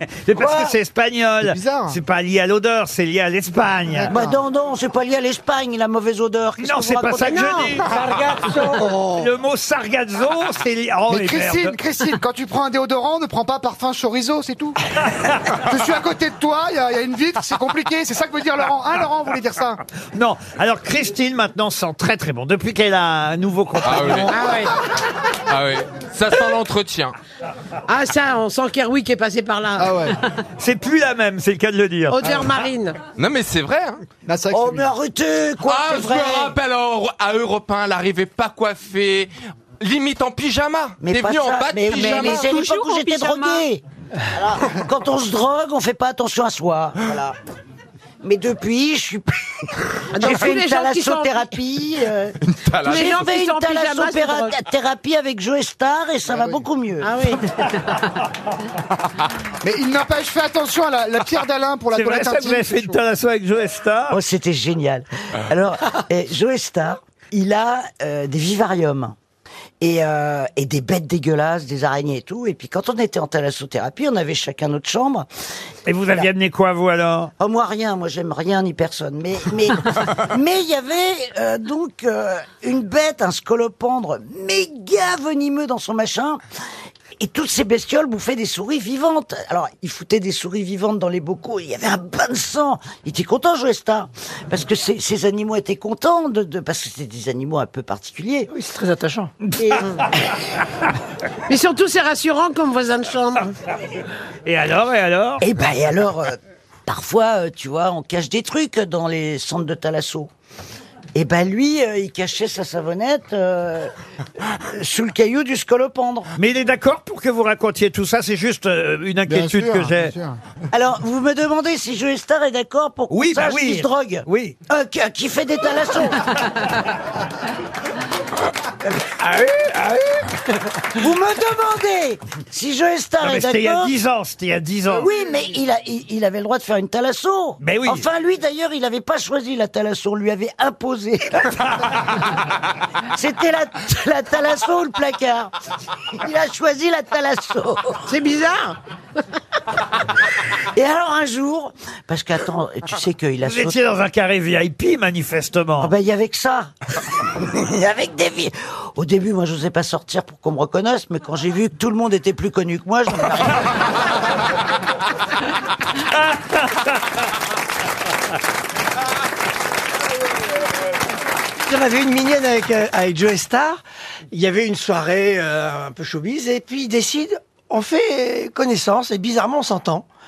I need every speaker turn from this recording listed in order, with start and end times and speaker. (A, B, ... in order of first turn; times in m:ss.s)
0:00.2-0:04.1 A
0:01.4-0:02.0 B
0:04.1-0:07.8 C
0:06.6-0:07.9 A
0:07.2-0:08.7 D
0:09.2-0:11.8 A
0:11.1-0:14.8 B
0:15.6-0:19.8 B
0:20.1-0:24.4 A
0:23.8-0:24.4 E
0:24.3-0:24.7 D
0:25.5-0:27.1 E
0:27.9-0:30.1 D
0:29.8-0:30.1 B
0:30.6-0:32.2 A
0:32.1-0:33.0 D
0:33.2-0:34.0 E
0:34.3-0:34.9 B
0:34.5-0:36.6 C
0:35.6-0:42.6 E
0:41.0-0:43.8 C
0:41.9-0:43.6 D
0:44.3-0:47.4 C
0:48.2-0:49.4 C
0:50.1-0:51.5 D
0:50.2-0:57.1 C
0:52.5-0:53.1 E
0:52.8-0:54.6 D
0:57.0-0:57.4 D
0:59.6-1:03.0 B
1:01.9-1:04.2 A
1:04.1-1:09.2 C
1:09.8-1:15.3 C
1:15.8-1:17.3 A
1:17.4-1:26.4 C
1:27.2-1:38.5 C
1:38.5-1:39.3 F
1:41.5-1:43.5 D
1:44.4-1:45.4 A
1:45.4-1:50.3 C
1:51.1-1:53.9 C
1:54.7-1:56.3 C
1:56.4-2:00.1 A
1:59.3-2:00.4 B
2:00.7-2:06.2 C
2:03.1-2:04.6 A
2:11.0-2:13.9 C
2:13.2-2:15.1 A
2:14.9-2:21.7 C
2:17.6-2:18.0 A
2:23.1-2:25.5 C
2:26.2-2:28.0 C
2:28.1-2:28.8 D
2:30.7-2:33.8 C
2:33.4-2:35.9 A
2:35.8-2:36.7 C
2:37.4-2:43.6 C
2:51.6-2:53.8 F
2:54.3-3:00.0 F